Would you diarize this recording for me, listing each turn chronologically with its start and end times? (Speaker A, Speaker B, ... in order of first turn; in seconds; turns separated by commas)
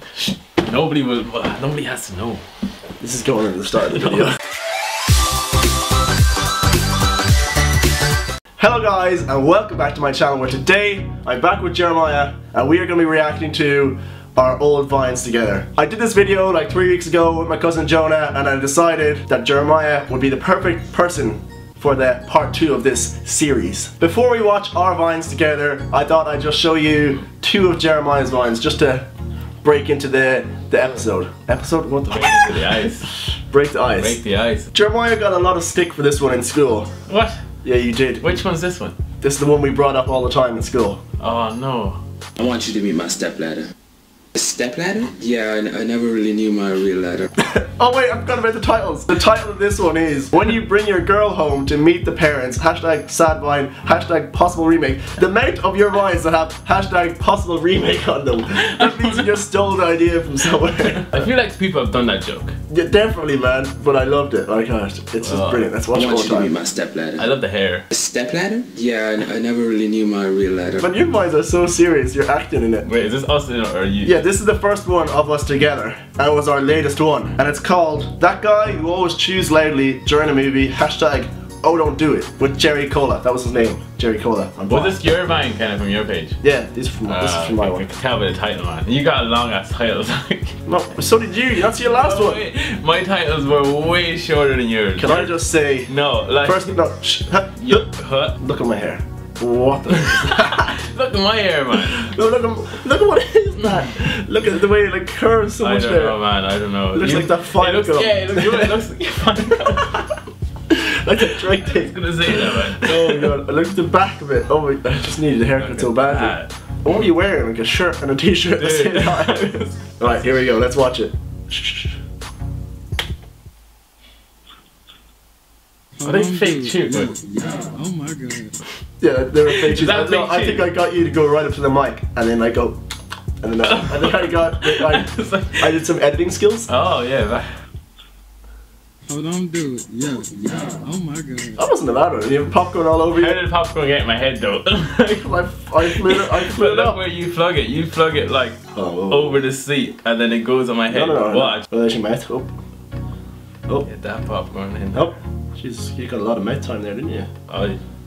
Speaker A: 0.2-2.4, Speaker B: 3.0-4.4, Speaker B: 8.6-29.1, Speaker B: 29.6-32.7, Speaker A: 32.1-33.1, Speaker B: 33.5-34.2, Speaker A: 34.0-34.7, Speaker B: 34.7-36.9, Speaker A: 37.1-37.4, Speaker B: 37.6-38.4, Speaker A: 38.2-39.0, Speaker B: 39.2-41.0, Speaker A: 41.2-42.0, Speaker C: 42.4-43.7, Speaker C: 44.4-47.3, Speaker B: 47.4-61.3, Speaker A: 58.5-59.4, Speaker A: 60.7-62.6, Speaker B: 62.7-66.5, Speaker A: 65.2-65.7, Speaker C: 65.9-67.3, Speaker A: 67.2-67.9, Speaker C: 67.9-70.9, Speaker B: 70.8-72.9, Speaker A: 72.8-74.2, Speaker B: 74.0-85.0, Speaker A: 84.7-86.4, Speaker B: 86.4-87.8, Speaker A: 87.1-90.6, Speaker B: 90.7-92.4, Speaker A: 91.8-95.4, Speaker B: 95.0-97.9, Speaker A: 95.9-96.8, Speaker A: 97.6-98.4, Speaker B: 98.4-100.8, Speaker A: 100.0-102.1, Speaker B: 101.8-106.2, Speaker A: 105.6-110.0, Speaker B: 106.9-108.8, Speaker B: 109.4-110.1, Speaker B: 110.7-122.0, Speaker A: 111.3-113.4, Speaker A: 115.6-117.1, Speaker A: 118.6-119.8, Speaker D: 126.0-128.6, Speaker A: 126.0-127.1, Speaker B: 129.0-132.8, Speaker A: 129.7-130.7, Speaker B: 133.4-136.7, Speaker A: 133.6-135.7, Speaker A: 136.7-137.5, Speaker D: 139.1-141.6, Speaker B: 141.6-143.4, Speaker A: 143.1-151.7, Speaker B: 145.2-147.0, Speaker B: 148.7-149.4, Speaker B: 150.9-152.5, Speaker A: 153.8-155.1, Speaker B: 154.9-157.3, Speaker A: 157.5-157.8